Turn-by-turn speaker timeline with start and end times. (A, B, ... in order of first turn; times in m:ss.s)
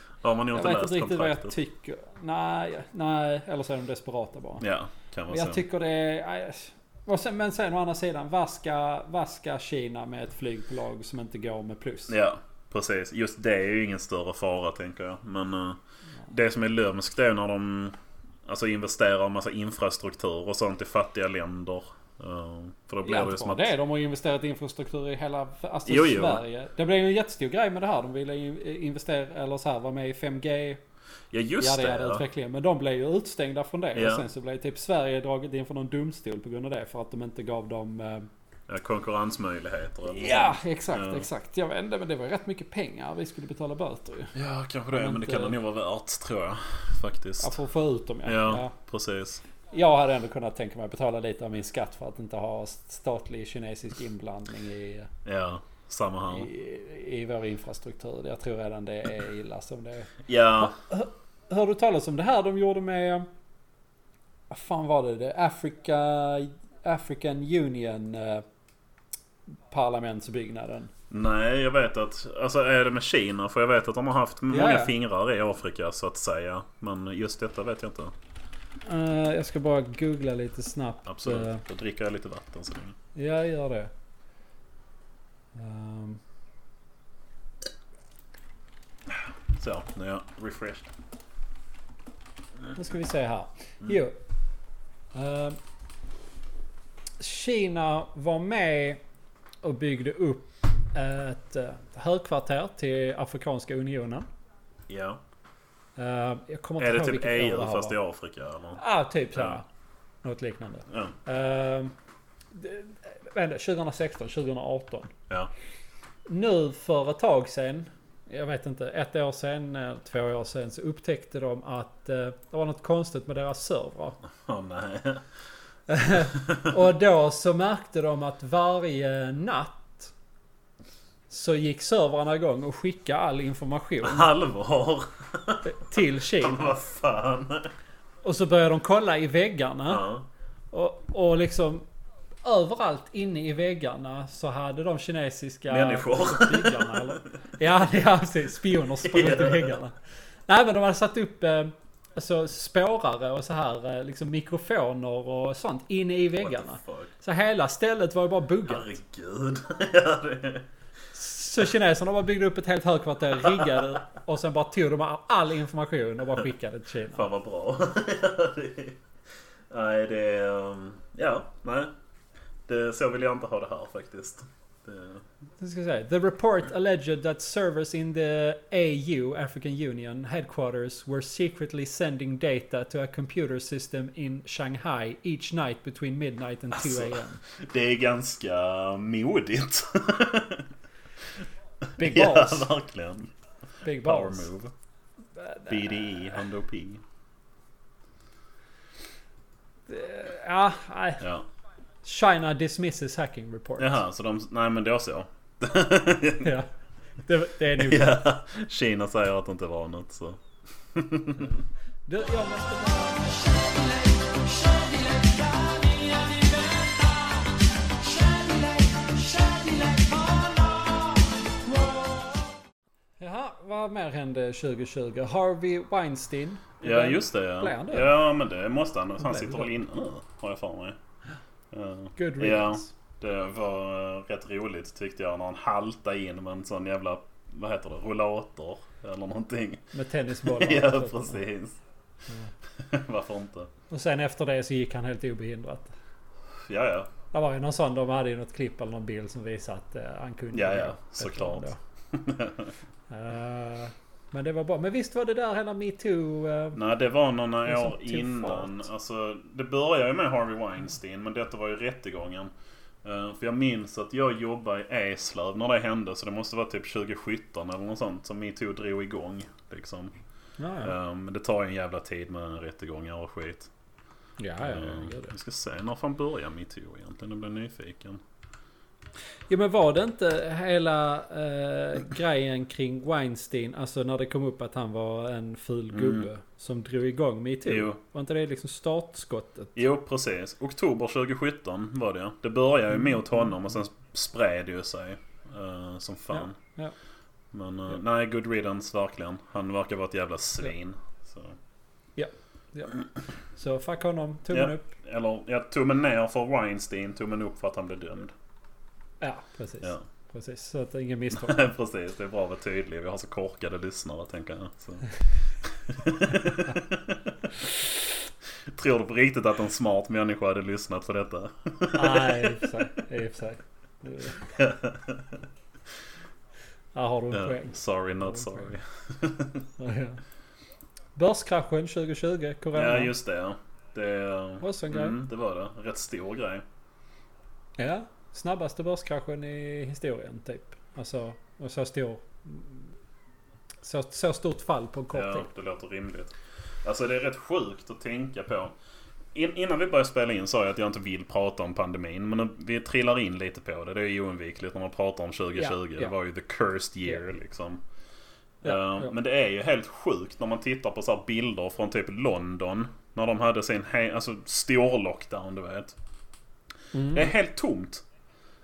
0:00.2-0:01.6 A
0:00.5-0:04.6 B
0:04.6-0:05.6 A
0:05.3-0:12.2 B
0:12.1-0:23.7 A
0:23.0-0:30.8 B
0:25.9-0:26.4 A
0:31.3-0:32.2 A
0:31.6-0:38.3 B
0:34.0-0:34.2 A
0:38.7-0:41.3 A
0:40.1-0:44.3 B
0:44.3-0:47.6 A
0:44.9-0:45.6 B
0:47.4-0:48.7 B
0:48.2-0:49.4 A
0:49.7-0:55.1 B
0:55.2-0:56.5 A
0:56.3-1:03.3 B
1:00.3-1:00.8 A
1:04.5-1:08.4 B
1:09.7-1:10.9 B
1:11.1-1:18.1 A
1:14.5-1:14.9 B
1:18.9-1:21.6 B
1:21.1-1:23.0 A
1:23.2-1:23.9 B
1:25.6-1:26.2 B
1:29.1-1:30.9 A
1:32.7-1:34.2 B
1:35.1-1:35.6 B
1:37.2-1:39.0 B
1:39.6-1:44.3 B
1:44.9-1:45.2 A
1:46.0-1:48.0 B
1:46.8-1:48.8 A
1:48.8-1:49.7 B
1:49.4-1:49.6 A
1:50.2-1:51.9 B
1:52.5-1:55.1 B
1:56.3-2:04.2 B
2:04.4-2:05.2 A
2:05.9-2:10.1 B
2:11.3-2:14.3 B
2:14.0-2:17.7 A
2:15.6-2:16.8 B
2:18.2-2:20.1 B
2:19.9-2:20.3 A
2:20.7-2:21.9 B
2:22.4-2:30.0 B
2:25.7-2:27.2 A
2:29.0-2:29.8 A
2:30.5-2:38.9 B
2:36.4-2:37.1 A
2:38.7-2:40.7 A
2:41.1-2:47.3 B
2:43.5-2:43.8 A
2:47.1-2:49.0 A
2:49.7-2:51.9 A
2:52.7-2:55.2 A
2:55.6-3:07.4 B
3:06.7-3:10.7 A
3:12.0-3:12.7 B
3:12.0-3:13.3 A
3:13.8-3:14.5 B
3:14.0-3:14.7 A
3:15.4-3:16.4 B
3:15.7-3:17.0 A
3:19.9-3:21.3 B
3:21.2-3:21.5 A
3:22.0-3:24.0 B
3:23.8-3:26.5 A
3:26.4-3:26.7 B
3:27.3-3:28.2 B
3:27.8-3:31.6 A
3:32.1-3:33.1 B
3:32.7-3:42.5 C
3:43.2-3:48.1 B
3:46.8-3:51.0 A
3:49.2-3:49.7 B
3:51.7-3:59.8 A
3:52.2-3:52.9 B
3:59.9-4:01.4 B
4:00.4-4:01.8 A
4:02.8-4:03.7 A
4:03.9-4:05.9 B
4:06.7-4:07.1 A
4:07.3-4:11.8 B
4:10.5-4:12.7 A
4:13.1-4:16.8 B
4:16.8-4:22.5 A
4:17.7-4:18.8 B
4:23.0-4:30.1 A
4:30.6-4:31.0 B
4:30.8-4:33.7 A
4:34.4-4:35.3 B
4:34.6-4:38.2 A
4:39.5-4:49.8 B
4:45.9-4:46.3 A
4:47.7-4:48.0 A
4:49.8-4:56.6 A
4:56.3-4:56.9 B
4:57.5-5:01.6 A
5:02.2-5:03.0 B
5:03.6-5:04.9 B
5:04.5-5:08.3 A
5:09.2-5:11.6 B
5:11.3-5:15.1 A
5:15.6-5:17.7 A
5:18.7-5:22.7 A
5:21.9-5:24.5 B
5:24.4-5:25.4 A
5:26.9-5:28.7 B
5:27.3-5:29.7 A
5:29.8-5:30.2 B
5:31.2-5:33.1 B
5:32.7-5:36.6 A
5:34.6-5:35.2 B
5:37.8-5:42.8 B
5:43.8-5:45.5 B
5:45.1-5:48.7 A
5:49.3-5:57.8 A
5:55.6-5:56.1 B
5:58.6-6:06.0 A
5:58.6-5:59.1 B
6:06.9-6:07.3 B
6:07.1-6:08.0 A